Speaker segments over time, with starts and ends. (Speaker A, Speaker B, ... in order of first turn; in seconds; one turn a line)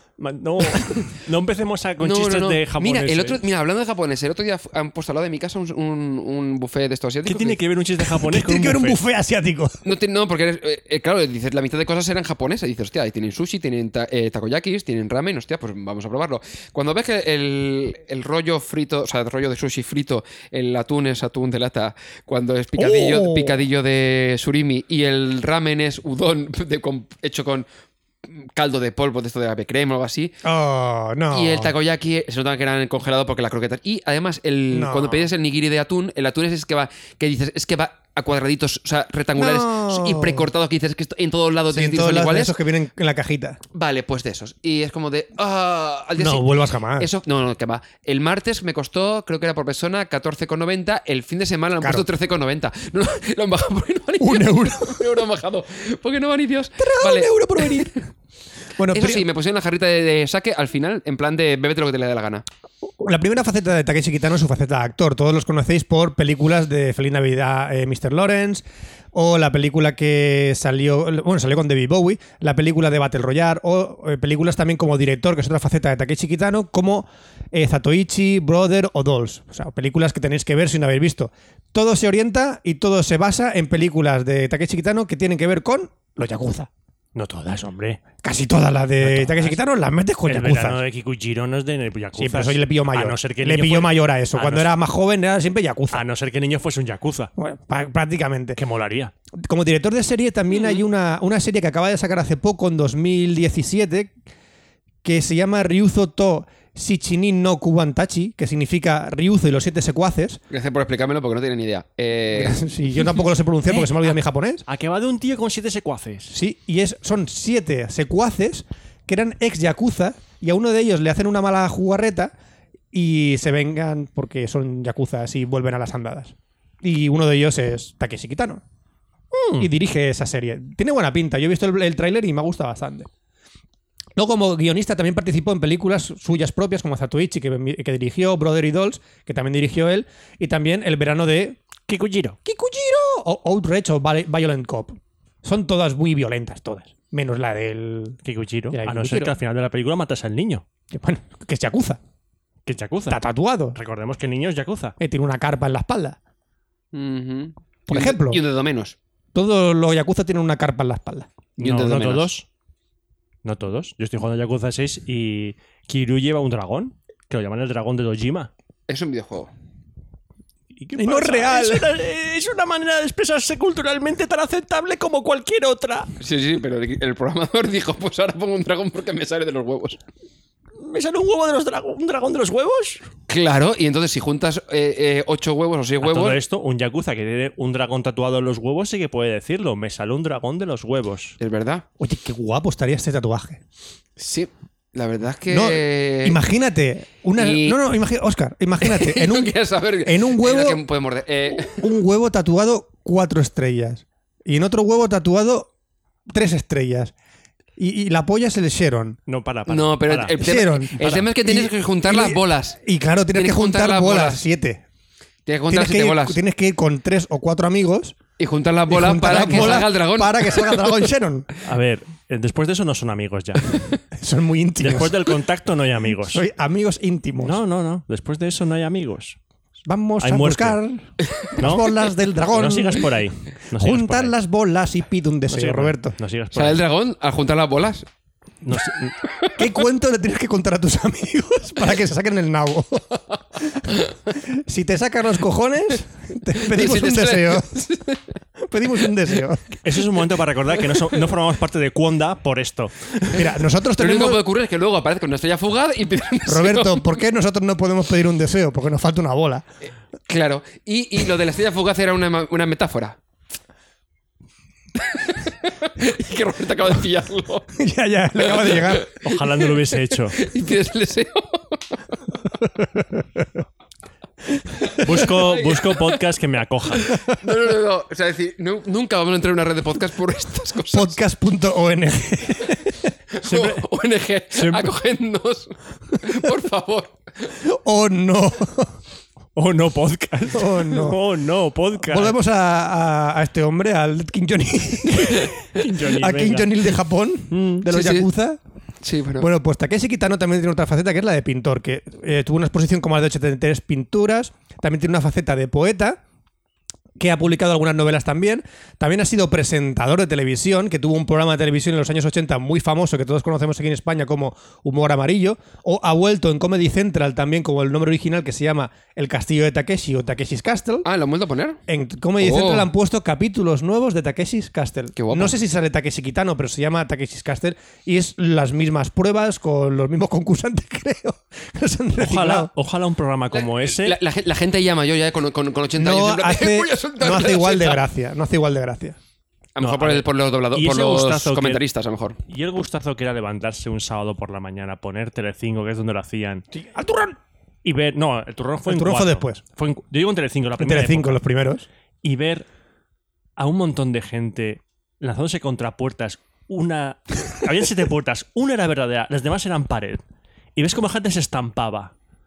Speaker A: 0.2-3.4
Speaker B: 2.0-7.6
Speaker A: 7.3-9.0
Speaker C: 8.1-9.8
Speaker B: 9.8-27.7
Speaker C: 22.8-23.6
Speaker B: 28.2-30.4
Speaker C: 30.4-31.7
Speaker B: 31.3-42.6
Speaker C: 34.7-35.3
Speaker C: 39.4-40.5
Speaker C: 41.7-43.6
Speaker B: 43.7-58.0
Speaker C: 46.2-47.1
Speaker C: 51.8-52.1
Speaker C: 54.2-55.1
Speaker C: 56.8-58.0
Speaker C: 58.8-59.2
Speaker B: 58.9-62.5
Speaker C: 63.0-86.7
Speaker A: 87.2-88.0
Speaker C: 88.2-90.8
Speaker A: 89.0-89.6
Speaker A: 90.3-94.7
Speaker C: 92.2-96.0
Speaker A: 95.9-97.3
Speaker C: 97.4-98.6
Speaker A: 98.6-99.1
Speaker C: 99.4-104.2
Speaker C: 105.0-110.4
Speaker B: 110.5-112.6
Speaker C: 112.3-114.7
Speaker A: 113.7-114.0
Speaker A: 114.7-116.3
Speaker C: 116.3-122.3
Speaker C: 122.9-128.6
Speaker A: 129.3-129.7
Speaker C: 129.6-133.1
Speaker C: 134.2-141.6
Speaker A: 141.9-142.4
Speaker C: 142.4-148.2
Speaker A: 148.2-150.6
Speaker C: 148.7-149.4
Speaker C: 150.9-152.0
Speaker A: 152.7-153.2
Speaker C: 153.1-153.8
Speaker A: 153.7-155.0
Speaker C: 155.0-156.2
Speaker B: 156.9-159.0
Speaker C: 157.9-158.4
Speaker C: 159.3-161.3
Speaker B: 161.6-162.3
Speaker A: 161.6-162.5
Speaker A: 163.4-168.5
Speaker B: 168.9-169.5
Speaker A: 170.8-176.1
Speaker C: 171.0-171.9
Speaker B: 176.2-180.0
Speaker A: 180.8-183.0
Speaker B: 183.3-186.4
Speaker A: 186.0-191.4
Speaker B: 191.4-191.8
Speaker C: 192.0-193.6
Speaker B: 194.2-196.4
Speaker C: 195.5-200.8
Speaker B: 197.4-197.8
Speaker B: 198.8-201.9
Speaker C: 201.6-205.7
Speaker C: 206.3-207.1
Speaker C: 207.8-209.2
Speaker A: 209.3-210.4
Speaker B: 209.7-212.8
Speaker C: 210.4-214.8
Speaker A: 211.0-211.2
Speaker B: 213.3-214.4
Speaker B: 215.5-216.4
Speaker C: 215.7-218.2
Speaker B: 218.4-221.1
Speaker C: 218.9-221.5
Speaker A: 221.6-223.8
Speaker C: 224.1-225.3
Speaker A: 224.8-226.4
Speaker C: 226.2-227.6
Speaker A: 227.4-229.4
Speaker C: 229.9-233.1
Speaker A: 230.2-230.8
Speaker A: 231.6-231.9
Speaker A: 232.5-234.3
Speaker C: 233.8-236.2
Speaker A: 235.5-236.8
Speaker B: 236.5-238.1
Speaker A: 238.6-239.2
Speaker B: 239.2-239.7
Speaker C: 239.6-247.8
Speaker B: 246.6-248.2
Speaker C: 248.6-249.7
Speaker A: 249.8-253.3
Speaker C: 253.3-254.4
Speaker B: 254.0-257.1
Speaker C: 256.5-259.7
Speaker B: 260.3-263.2
Speaker B: 265.0-267.8
Speaker C: 267.8-269.1
Speaker B: 268.4-272.2
Speaker A: 269.2-270.4
Speaker C: 272.9-273.2
Speaker B: 274.9-276.2
Speaker A: 275.0-277.1
Speaker B: 277.0-281.2
Speaker C: 280.9-283.0
Speaker B: 283.3-287.5
Speaker A: 283.4-283.9
Speaker A: 284.5-284.9
Speaker C: 287.6-289.0
Speaker A: 289.6-292.4
Speaker C: 290.5-291.2
Speaker C: 292.0-295.6
Speaker A: 295.3-296.9
Speaker C: 296.1-298.6
Speaker A: 297.5-297.9
Speaker B: 297.9-298.3
Speaker B: 299.0-299.5
Speaker C: 299.4-306.2
Speaker C: 307.2-321.1
Speaker B: 321.1-321.8
Speaker C: 321.9-332.7
Speaker B: 322.4-322.9
Speaker B: 325.2-325.6
Speaker A: 332.2-334.2
Speaker B: 333.5-338.0
Speaker C: 336.0-339.2
Speaker B: 339.8-342.4
Speaker A: 339.8-341.8
Speaker A: 342.5-346.7
Speaker C: 346.7-347.4
Speaker A: 347.8-351.4
Speaker C: 348.9-349.6
Speaker C: 350.8-351.9
Speaker A: 352.2-352.7
Speaker A: 353.6-360.2
Speaker A: 360.8-362.1